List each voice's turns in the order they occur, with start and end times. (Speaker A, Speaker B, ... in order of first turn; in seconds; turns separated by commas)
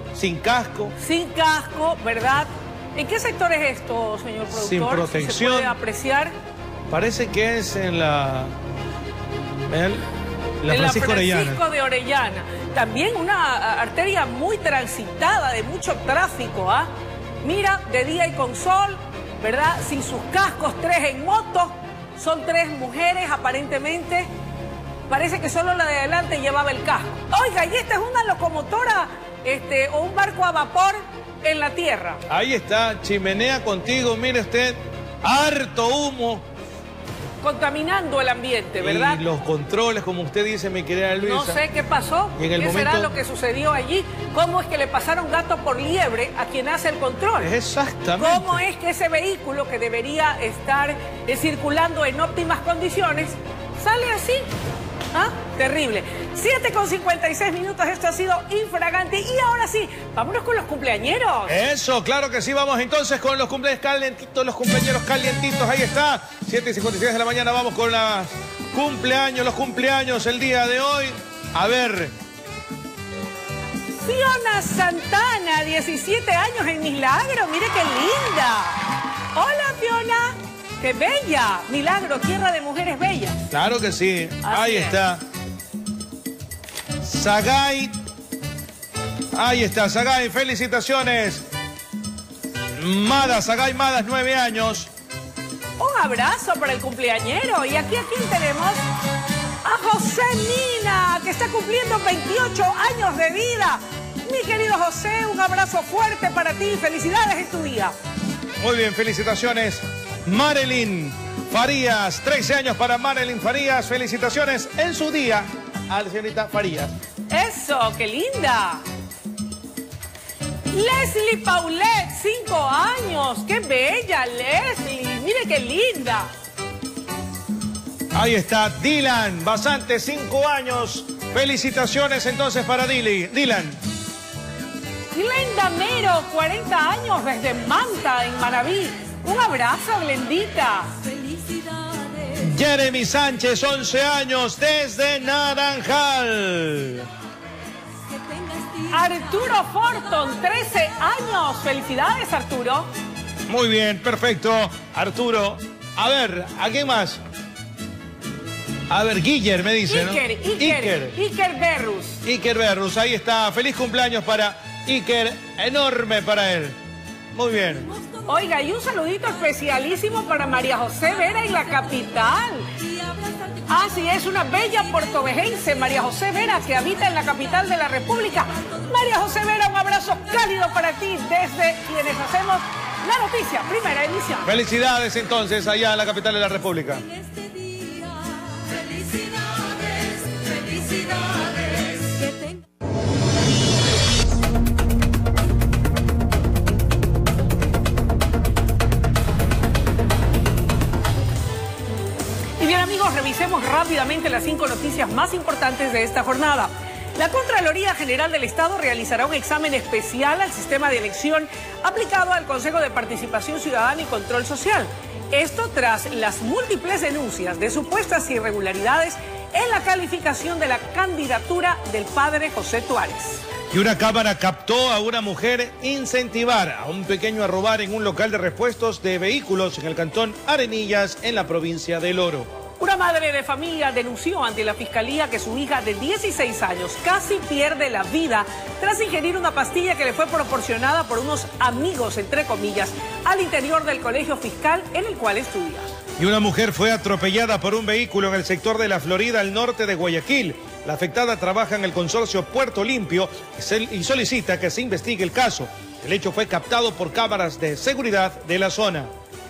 Speaker A: 0.1-0.9, Speaker B: 1.0-6.3, Speaker A: 4.5-5.7, Speaker A: 6.9-8.5, Speaker A: 9.7-10.0, Speaker A: 10.6-11.6, Speaker B: 10.7-16.9, Speaker B: 17.4-24.3, Speaker B: 25.1-32.2, Speaker A: 32.3-36.4, Speaker B: 37.4-39.2, Speaker A: 38.8-41.6, Speaker B: 41.2-47.5, Speaker A: 42.4-43.1, Speaker A: 47.4-48.6, Speaker B: 48.2-54.5, Speaker B: 55.1-61.6, Speaker A: 61.5-72.1, Speaker B: 74.0-83.4, Speaker A: 83.5-85.2, Speaker B: 84.4-85.0, Speaker A: 87.0-87.9, Speaker A: 89.3-91.4, Speaker A: 92.8-94.9, Speaker B: 95.8-98.8, Speaker B: 99.6-107.9, Speaker A: 108.6-116.9, Speaker B: 117.3-118.8, Speaker B: 120.7-126.3, Speaker A: 128.1-133.8, Speaker B: 135.1-140.9, Speaker A: 142.4-147.1, Speaker B: 148.9-152.9, Speaker A: 153.5-157.2, Speaker A: 158.9-161.2, Speaker B: 159.9-162.2, Speaker A: 162.2-166.8, Speaker A: 167.3-167.9, Speaker B: 168.2-172.7, Speaker B: 173.7-184.5, Speaker A: 184.4-187.0, Speaker B: 202.6-223.4, Speaker A: 223.7-232.5, Speaker B: 232.8-245.9, Speaker A: 246.2-259.1